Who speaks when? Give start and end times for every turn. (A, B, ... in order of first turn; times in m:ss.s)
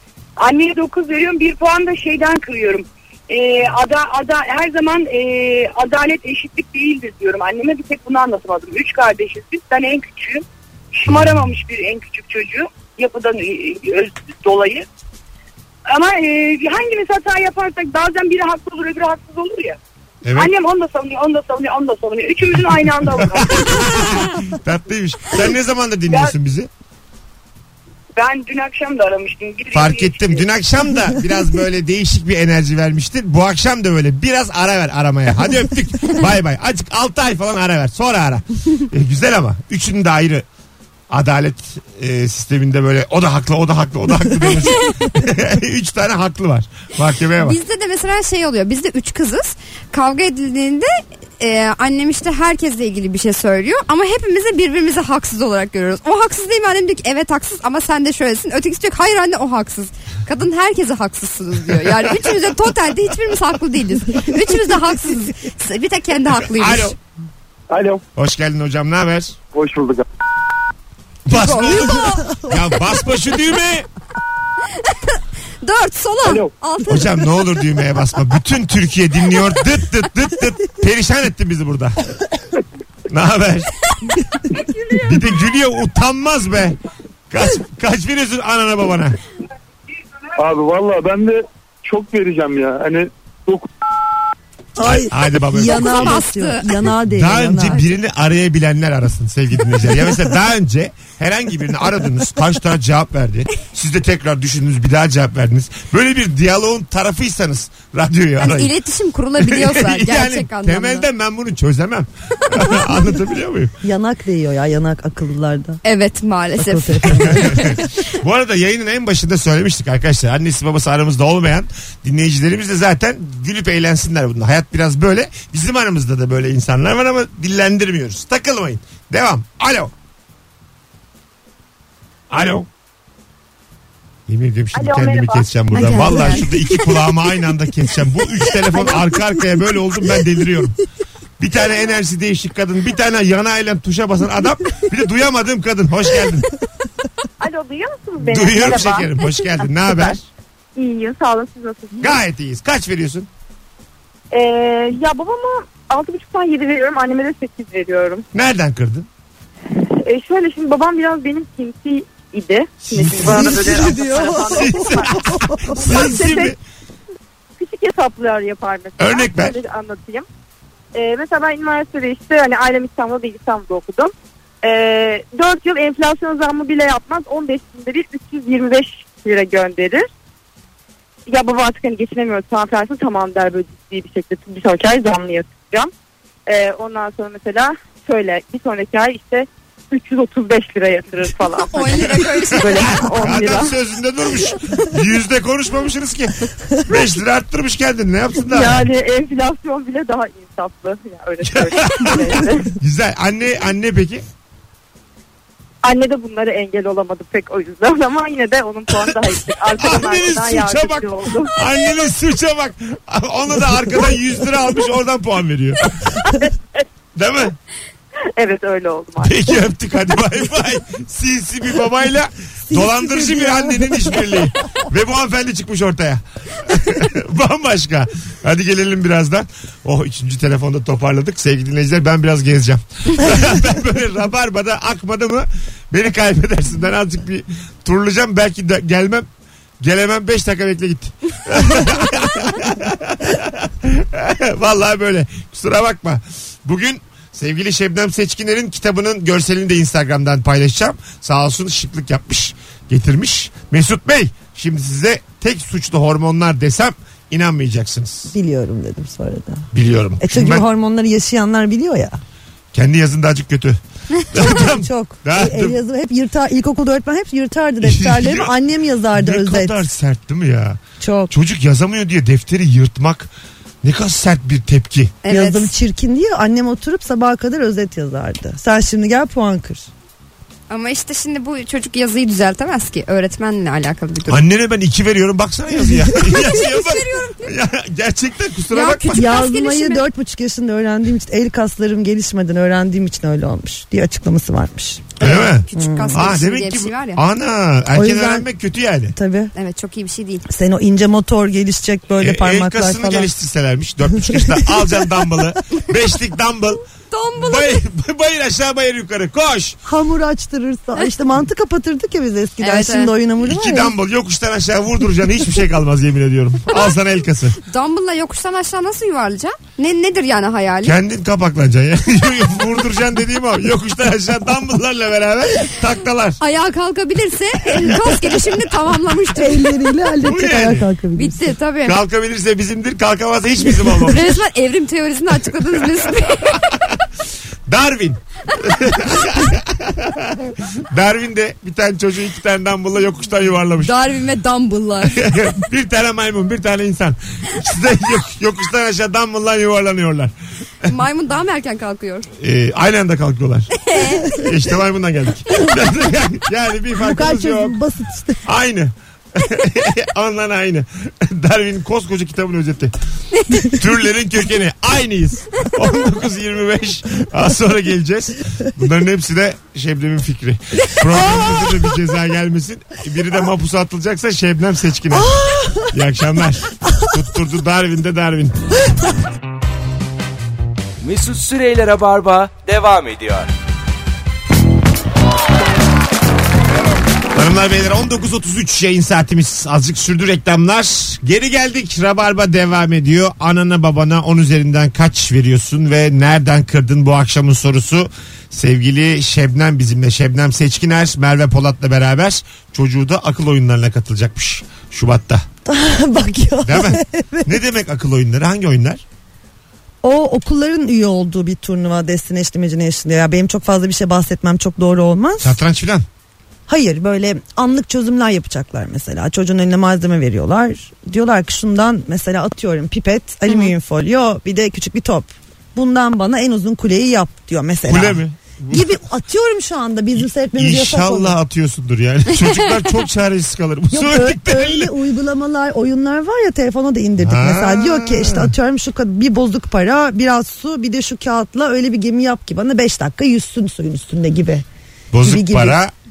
0:00.4-0:14.9 A
0:11.1-0:11.4 B
0:15.9-0:19.8 A
0:20.2-0:20.5 B
0:20.3-0:24.2 A
0:23.0-0:26.7 B
0:26.1-0:26.3 A
0:28.2-0:30.5 A
0:29.7-0:40.5 B
0:41.1-0:47.6 B
0:47.4-1:07.0 C
1:06.5-1:07.0 B
1:07.7-1:08.0 D
1:08.2-1:09.4 B
1:09.5-1:10.1 D
1:11.3-1:13.9 B
1:11.3-1:12.4 C
1:15.6-1:17.5 C
1:16.2-1:16.5 D
1:16.9-1:22.0 B
1:23.1-1:23.8 B
1:24.5-1:25.1 C
1:25.0-1:26.8 B
1:27.3-1:29.2 B
1:30.4-1:33.7 D
1:34.8-1:37.8 E
1:34.8-1:36.2 B
1:35.7-1:36.9 C
1:37.1-1:48.7 B
1:48.4-1:51.1 C
1:49.4-1:53.7 B
1:53.8-1:55.8 E
1:55.8-1:57.8 C
1:56.6-1:57.7 E
1:57.2-2:09.9 B
2:12.3-2:12.7 B
2:14.3-2:20.8 B
2:15.7-2:16.8 C
2:21.4-2:26.5 B
2:27.4-2:29.1 F
2:28.2-2:30.3 B
2:29.8-2:30.1 F
2:30.8-2:32.2 F
2:32.0-2:33.3 B
2:34.3-2:38.2 F
2:38.3-2:39.1 B
2:39.7-2:45.2 F
2:42.8-2:43.9 B
2:43.2-2:46.1 E
2:44.5-2:46.6 B
2:45.7-2:46.6 F
2:47.6-2:50.3 F
2:49.0-2:49.6 B
2:50.9-3:00.1 F
3:01.3-3:05.9 F
3:06.5-3:13.7 F
3:11.7-3:13.0 C
3:12.5-3:18.9 B
3:18.4-3:22.7 F
3:21.4-3:24.2 B
3:25.8-3:31.5 F
3:29.8-3:36.1 B
3:36.4-3:36.8 F
3:37.2-3:37.6 B
3:38.4-3:39.6 F
3:39.2-3:59.3 B
3:42.7-3:44.3 E
3:59.8-4:18.3 B
4:18.3-4:19.7 E
4:19.7-4:20.6 B
4:20.2-4:22.2 E
4:22.7-4:23.8 B
4:24.3-4:25.8 B
4:24.3-4:29.8 E
4:27.8-4:28.5 B
4:29.1-4:33.3 B
4:31.0-4:31.3 E
4:33.8-4:35.1 B
4:35.2-4:35.7 C
4:35.3-4:39.9 E
4:40.7-4:44.4 C
4:44.3-4:49.4 B
4:46.2-4:47.5 C
4:48.7-4:50.1 C
4:49.1-4:55.2 E
4:55.2-4:57.2 C
4:55.2-4:59.2 B
4:55.7-4:56.3 E
4:57.9-4:58.5 E
4:59.2-4:59.5 E
4:59.6-5:00.5 C
5:00.5-5:03.3 E
5:02.2-5:06.8 B
5:04.3-5:04.7 E
5:07.1-5:07.8 C
5:07.4-5:09.8 B
5:09.9-5:13.9 E
5:12.6-5:13.1 C
5:13.4-5:17.6 B
5:17.6-5:21.0 C
5:20.8-5:26.4 B
5:26.4-5:29.8 C
5:27.8-5:28.1 B
5:29.4-5:31.4 E
5:30.2-5:30.9 B
5:31.2-5:32.0 C
5:31.8-5:34.4 B
5:34.1-5:36.7 C
5:35.8-5:37.0 B
5:37.7-5:43.9 B
5:43.8-5:45.3 C
5:45.0-5:50.3 B
5:50.8-5:52.3 C
5:52.4-5:57.8 B
5:53.8-5:54.5 C
5:57.0-5:58.4 E
5:58.4-6:02.9 B
6:03.4-6:03.8 C
6:03.7-6:18.6 B
6:15.2-6:15.9 E
6:21.0-6:23.5 G
6:27.3-6:45.4 B
6:45.7-6:47.5 E
6:46.6-6:49.0 B
6:50.0-6:55.6 E
6:55.4-6:56.1 B
6:56.7-7:11.4 E
7:07.9-7:09.0 B
7:10.2-7:14.9 B
7:13.9-7:24.6 E
7:17.2-7:18.5 B
7:25.1-7:25.9 B
7:25.2-7:25.8 E